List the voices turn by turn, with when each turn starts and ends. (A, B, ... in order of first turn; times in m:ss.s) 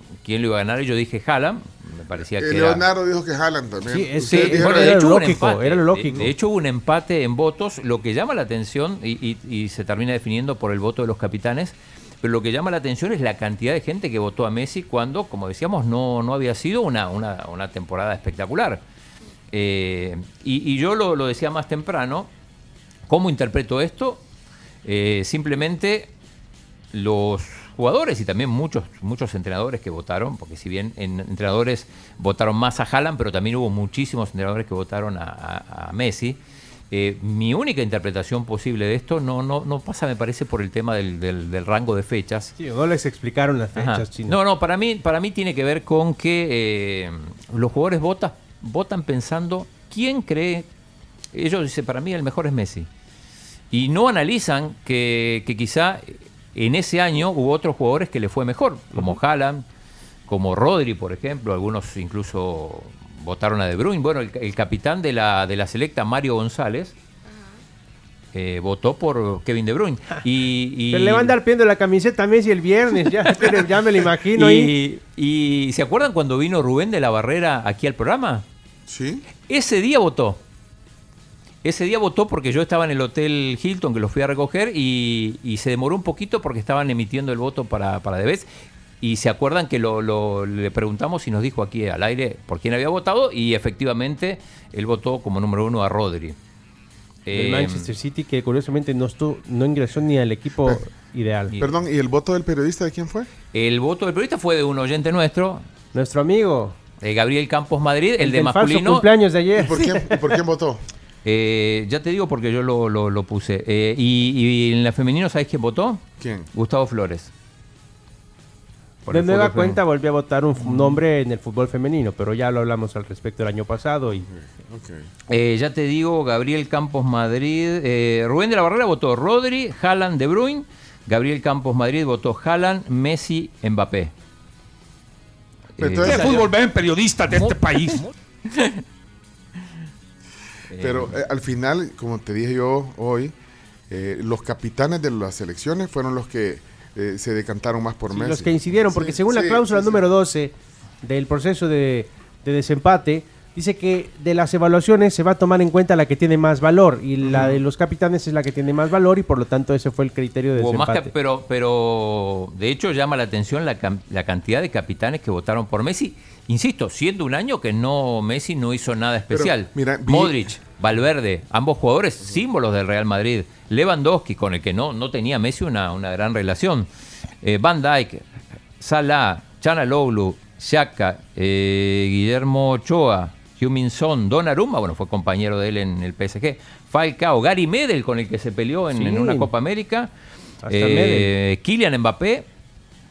0:00.2-0:02.8 A
0:02.4-0:05.0 B
0:03.9-0:06.3 C
0:04.3-0:18.8 A
0:19.5-0:22.3 A
0:23.1-0:24.2 A
0:24.8-0:26.1 A
0:26.9-0:36.4 A
0:36.9-0:42.5 A
0:42.6-0:44.4 C
0:43.8-0:50.7 A
0:51.3-0:52.9 A
0:53.7-0:59.6 A
1:00.3-1:06.9 A
1:08.3-1:11.3 A
1:10.9-1:14.7 C
1:13.2-1:13.7 A
1:14.3-1:18.4 A
1:18.9-1:19.2 B
1:19.5-1:20.4 A
1:21.6-1:28.4 A
1:29.0-1:36.4 A
1:37.2-1:37.9 A
1:37.3-1:41.5 C
1:41.6-1:43.3 B
1:43.5-1:45.6 A
1:45.9-1:46.8 C
1:47.0-1:49.0 A
1:48.2-1:50.1 C
1:49.6-1:50.8 B
1:51.2-1:57.3 A
1:56.2-1:56.5 B
1:59.0-1:59.8 A
1:59.1-2:04.3 C
2:00.7-2:01.0 A
2:04.2-2:05.1 B
2:05.3-2:14.1 A
2:15.8-2:16.4 A
2:15.8-2:16.4 B
2:16.0-2:18.0 D
2:18.5-2:18.8 A
2:20.7-2:21.2 A
2:20.8-2:23.3 B
2:23.9-2:30.0 B
2:28.1-2:41.1 C
2:40.6-2:56.9 A
2:49.3-2:50.5 B
2:57.4-2:58.2 A
2:58.8-3:10.1 A
3:08.9-3:09.5 C
3:10.6-3:11.3 C
3:10.7-3:12.4 A